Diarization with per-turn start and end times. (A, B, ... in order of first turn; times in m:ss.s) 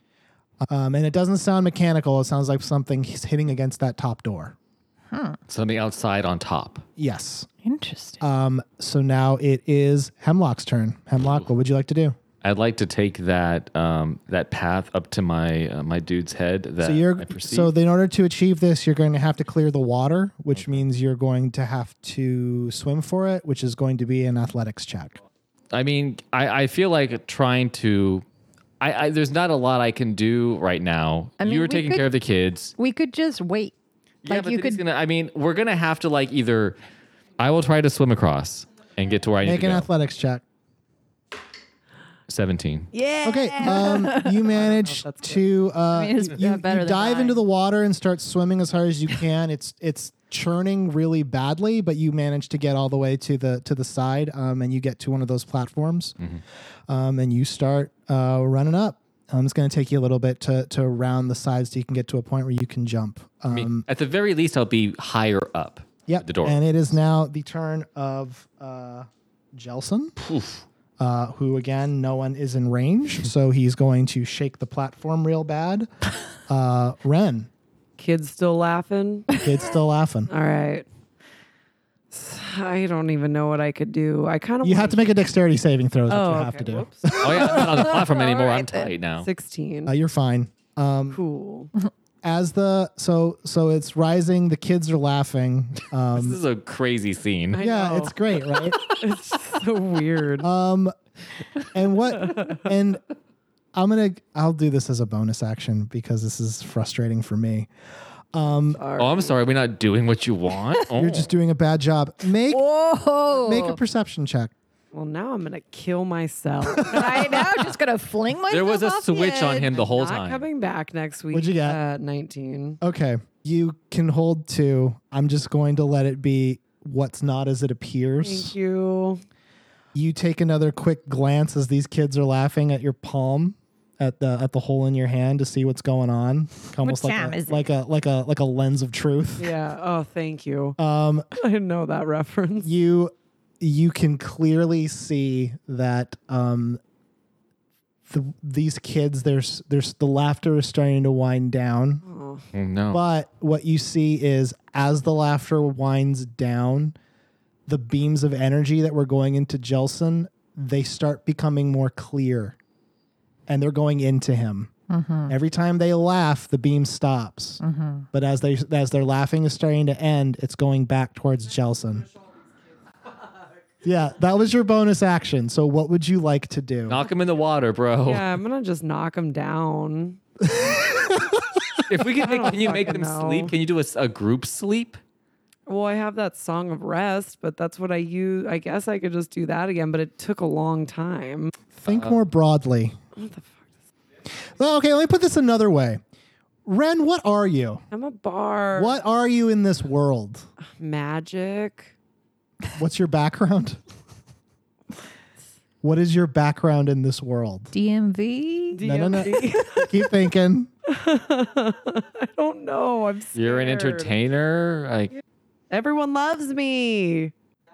0:00.7-0:04.6 A
0:05.1-0:05.4 B
0:05.5-0:06.8 C
0:07.0-0:07.5 A
0:07.6-0:08.2 B
0:08.2-0:12.2 A
0:12.4-0:17.7 C
0:16.8-0:25.2 A
0:20.6-0:20.8 C
0:25.7-0:28.2 C
0:28.8-0:32.8 C
0:31.4-0:32.1 B
0:32.8-0:33.7 B
0:34.2-0:36.8 C
0:34.3-0:34.8 B
0:37.4-0:39.9 C
0:39.4-0:40.4 A
0:42.3-0:42.9 C
0:42.9-0:45.6 D
0:43.2-0:56.2 A
0:43.6-0:44.4 B
0:45.9-0:47.4 B
0:56.9-1:03.9 A
1:03.5-1:06.6 C
1:06.1-1:10.2 A
1:10.2-1:10.6 C
1:11.0-1:15.9 A
1:16.5-1:17.5 A
1:18.0-1:19.4 D
1:19.4-1:20.3 A
1:20.3-1:20.9 D
1:22.1-1:25.2 D
1:24.6-1:27.9 A
1:26.1-1:27.8 D
1:27.2-1:29.3 C
1:27.5-1:28.9 B
1:29.2-1:29.9 D
1:29.9-1:31.2 A
1:31.1-1:31.7 D
1:32.2-1:36.4 A
1:36.1-1:37.6 C
1:37.5-1:40.5 D
1:37.6-1:38.8 A
1:40.4-1:40.9 A
1:41.7-1:43.0 A
1:42.2-1:42.6 D
1:43.8-1:47.7 A
1:48.3-1:48.8 A
1:48.7-1:49.4 D
1:49.0-1:51.3 C
1:50.9-1:52.6 A
1:52.5-1:53.8 B
1:53.3-1:54.5 A
1:54.9-1:57.6 D
1:56.8-1:59.7 B
1:58.5-2:00.4 C
1:59.7-2:02.8 D
2:01.3-2:01.8 A
2:02.8-2:08.6 A
2:08.2-2:09.2 D
2:09.9-2:19.5 A
2:16.8-2:17.6 B
2:19.4-2:20.8 D
2:20.8-2:21.3 A
2:21.3-2:22.7 D
2:22.6-2:26.8 A
2:28.1-2:32.0 A
2:32.1-2:32.5 D
2:32.5-2:33.0 C
2:32.9-2:37.0 A
2:37.7-2:42.6 A
2:43.5-2:44.7 A
2:44.9-2:45.3 B
2:45.3-2:47.6 A
2:47.6-2:48.1 B
2:48.1-2:52.1 A
2:53.8-2:57.1 A
2:56.9-2:58.4 C
2:58.1-3:00.2 D
3:00.4-3:01.2 A
3:01.9-3:05.0 C
3:02.1-3:03.5 D
3:05.7-3:11.5 D
3:11.7-3:13.0 A
3:11.9-3:12.2 C
3:13.2-3:13.6 D
3:14.5-3:16.0 A
3:16.6-3:17.8 A
3:17.9-3:19.0 D
3:18.8-3:20.5 A
3:20.8-3:21.9 D
3:22.8-3:23.8 A
3:25.8-3:27.7 A
3:27.7-3:29.9 B
3:28.7-3:29.9 D
3:28.8-3:30.7 A
3:30.9-3:34.2 D
3:33.4-3:35.1 C
3:35.7-3:37.3 D